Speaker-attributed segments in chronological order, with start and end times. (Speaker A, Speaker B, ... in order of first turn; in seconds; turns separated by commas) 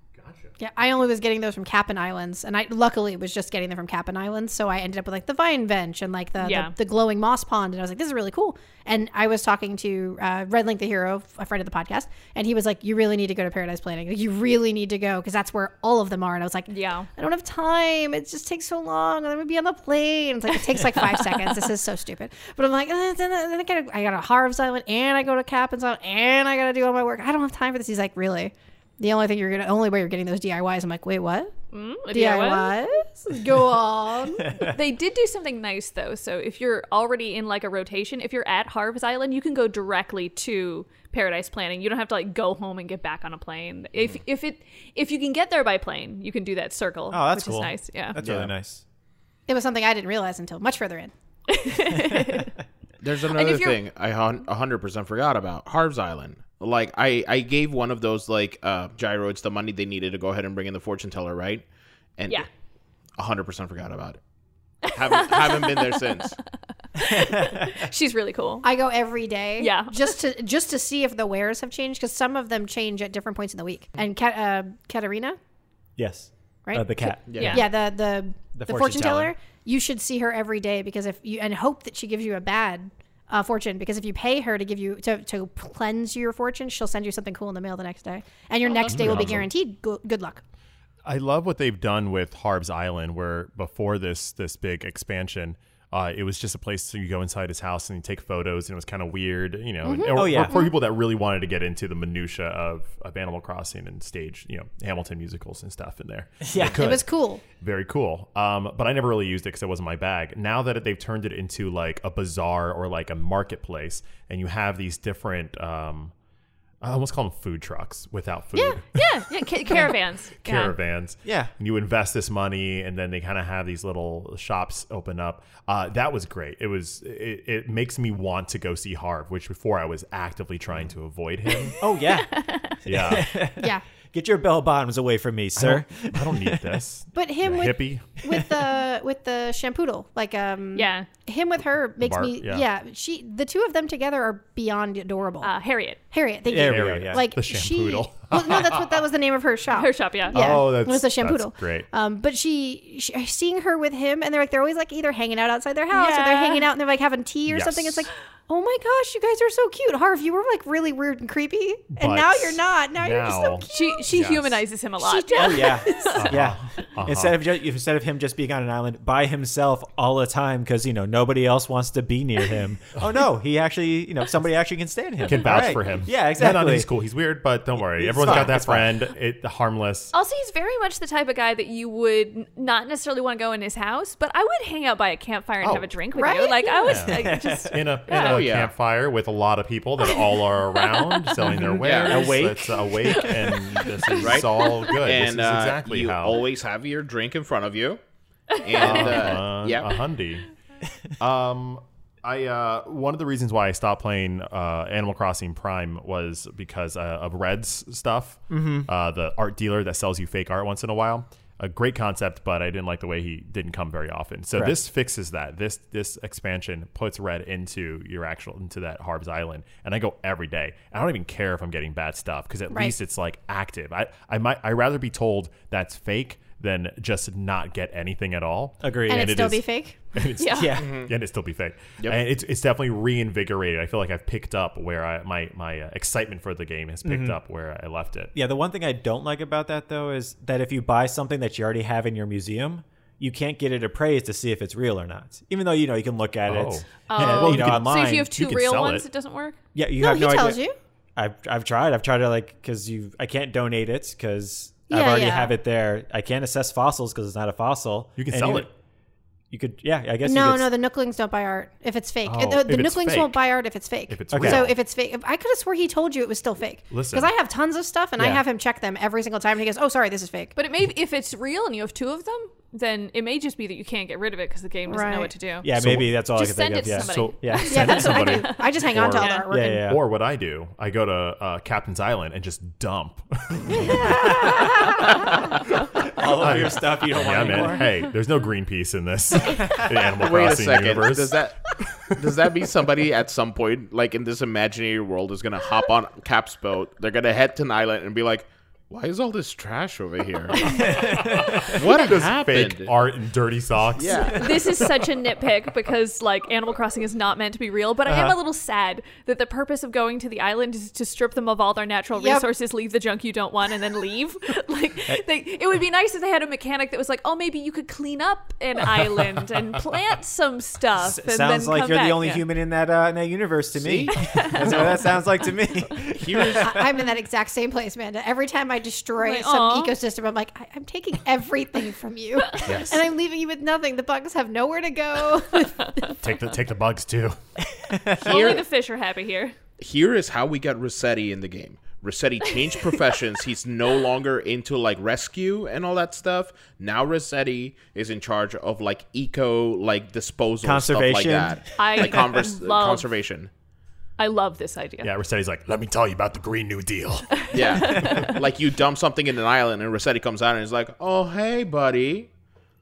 Speaker A: 0.1-0.5, Speaker B: 0.6-31.5, Speaker C: 6.4-6.7, Speaker C: 16.7-17.1, Speaker C: 21.1-21.5, Speaker C: 31.7-32.8, Speaker B: 32.1-34.6, Speaker D: 34.5-34.7, Speaker C: 34.5-48.2, Speaker D: 47.1-48.8, Speaker E: 48.2-48.5, Speaker B: 49.5-51.1, Speaker C: 51.5-52.5, Speaker E: 53.0-61.6, Speaker C: 53.3-53.8, Speaker E: 62.2-62.5, Speaker E: 63.2-64.2, Speaker C: 64.8-66.3, Speaker E: 64.9-66.4, Speaker C: 67.0-68.7, Speaker D: 67.0-67.8, Speaker B: 68.6-75.4, Speaker C: 69.6-70.2, Speaker D: 76.0-77.6, Speaker B: 76.7-90.4, Speaker E: 77.3-77.6, Speaker C: 77.3-77.7, Speaker D: 78.5-79.3, Speaker A: 88.9-89.5, Speaker A: 91.0-116.1, Speaker B: 99.8-100.7, Speaker D: 100.1-100.6, Speaker D: 106.4-106.8, Speaker B: 106.6-107.4, Speaker A: 116.8-119.0, Speaker C: 118.9-120.8, Speaker A: 119.7-131.8, Speaker D: 121.2-121.5, Speaker D: 131.8-132.3, Speaker C: 132.1-132.8, Speaker A: 132.8-133.4, Speaker D: 132.8-136.8, Speaker B: 133.6-133.8, Speaker A: 135.6-138.2, Speaker B: 137.2-145.5, Speaker C: 140.8-141.1, Speaker A: 142.0-142.6, Speaker C: 145.4-146.0, Speaker B: 146.1-164.1, Speaker D: 146.5-147.3, Speaker A: 146.6-148.8, Speaker C: 149.8-150.6, Speaker A: 150.3-151.9, Speaker C: 155.9-156.7, Speaker A: 157.5-158.1, Speaker A: 161.9-164.6, Speaker C: 163.7-166.3, Speaker B: 165.0-166.2, Speaker D: 165.3-176.9, Speaker A: 166.2-167.4, Speaker A: 175.2-180.1, Speaker D: 177.8-178.9, Speaker C: 180.1-188.4, Speaker A: 185.6-185.9, Speaker B: 186.2-187.1, Speaker A: 186.9-196.4, Speaker D: 187.1-187.8, Speaker E: 188.2-188.7, Speaker C: 190.1-191.4, Speaker D: 191.4-193.7, Speaker E: 191.8-192.3, Speaker C: 193.8-194.9, Speaker E: 194.2-198.0, Speaker C: 198.5-199.0, Speaker E: 198.6-200.0, Speaker A: 198.8-200.5, Speaker A: 201.2-238.3, Speaker D: 208.5-208.9, Speaker B: 222.7-223.0, Speaker D: 228.8-229.4, Speaker B: 229.1-230.0, Speaker C: 230.4-230.8, Speaker D: 230.5-230.9, Speaker E: 230.8-231.1, Speaker D: 237.0-237.4, Speaker D: 238.3-248.2, Speaker A: 246.5-249.1, Speaker C: 247.1-249.6, Speaker D: 249.7-250.6, Speaker B: 250.0-250.8, Speaker D: 251.2-258.7, Speaker B: 254.9-255.6, Speaker A: 258.2-258.7, Speaker D: 259.5-260.7, Speaker B: 260.2-270.5, Speaker A: 262.3-263.4, Speaker A: 264.1-264.8, Speaker D: 264.3-264.7, Speaker A: 266.9-267.3, Speaker C: 270.6-275.7, Speaker B: 274.9-275.3, Speaker D: 275.6-278.3, Speaker A: 275.7-276.2, Speaker C: 276.3-279.5, Speaker A: 276.9-284.6, Speaker B: 277.7-279.9, Speaker D: 279.5-280.0, Speaker B: 283.8-285.0, Speaker D: 284.2-284.6, Speaker A: 285.6-292.4, Speaker D: 286.0-287.9, Speaker E: 290.2-300.9, Speaker D: 300.7-301.8, Speaker A: 301.1-305.1, Speaker E: 301.7-302.9, Speaker E: 304.0-304.7, Speaker C: 304.3-322.4, Speaker D: 308.1-308.4, Speaker B: 312.1-312.4, Speaker D: 321.0-326.9, Speaker E: 323.8-325.0, Speaker C: 324.1-324.9, Speaker E: 326.1-326.8, Speaker B: 326.5-335.9, Speaker C: 329.2-329.9, Speaker A: 332.6-333.0, Speaker A: 336.2-337.4, Speaker D: 337.7-338.3, Speaker C: 338.2-339.6, Speaker E: 338.2-338.7, Speaker E: 339.8-353.5, Speaker D: 350.6-351.7, Speaker C: 351.8-353.1, Speaker C: 354.2-355.1, Speaker A: 355.0-358.3, Speaker C: 357.3-358.4, Speaker E: 357.5-362.3